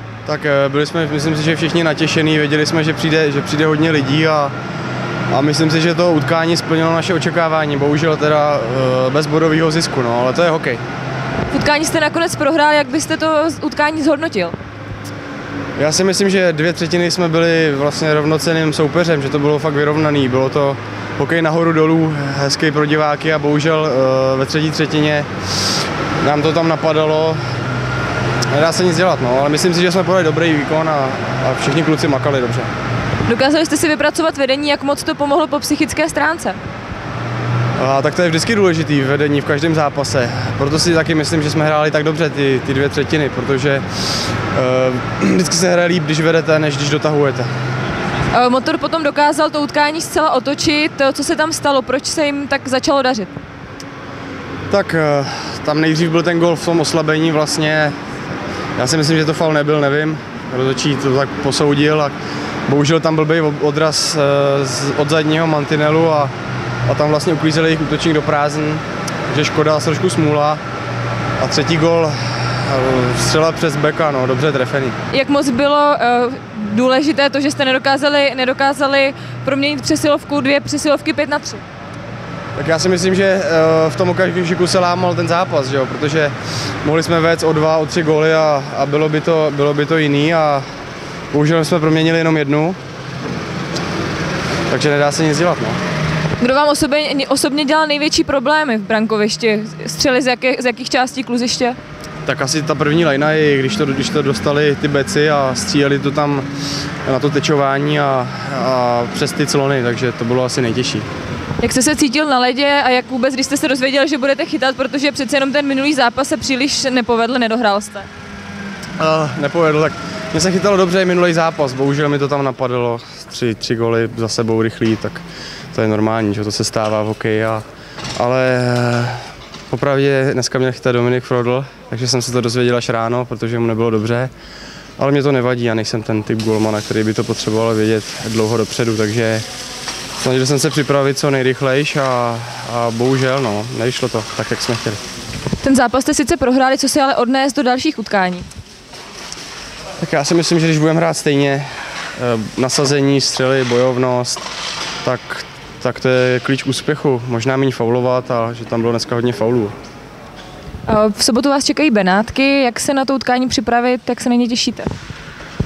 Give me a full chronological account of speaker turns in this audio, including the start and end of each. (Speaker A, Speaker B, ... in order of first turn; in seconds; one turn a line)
Speaker A: 0.2-4.5
Speaker A: 5.3-10.8
Speaker B: 11.5-14.5
Speaker A: 15.8-25.3
Speaker A: 26.2-27.4
Speaker A: 28.5-32.7
Speaker B: 33.2-36.6
Speaker A: 37.8-47.5
Speaker B: 48.3-53.3
Speaker A: 54.7-57.9
Speaker A: 58.8-62.1
Speaker A: 62.7-66.3
Speaker A: 66.9-70.6
Speaker A: 71.4-75.0
Speaker B: 75.1-81.6
Speaker A: 82.5-90.6
Speaker A: 91.3-92.8
Speaker A: 94.7-95.8
Speaker B: 96.4-101.8
Speaker A: 102.2-106.5
Speaker A: 107.0-111.0
Speaker B: 111.6-118.1
Speaker A: 119.0-125.2
Speaker A: 125.7-127.6
Speaker A: 128.2-134.3
Speaker A: 135.0-139.4
Speaker A: 140.2-145.0
Speaker B: 145.6-148.4
Speaker A: 150.0-154.5
Speaker A: 155.0-159.7
Speaker B: 160.9-164.9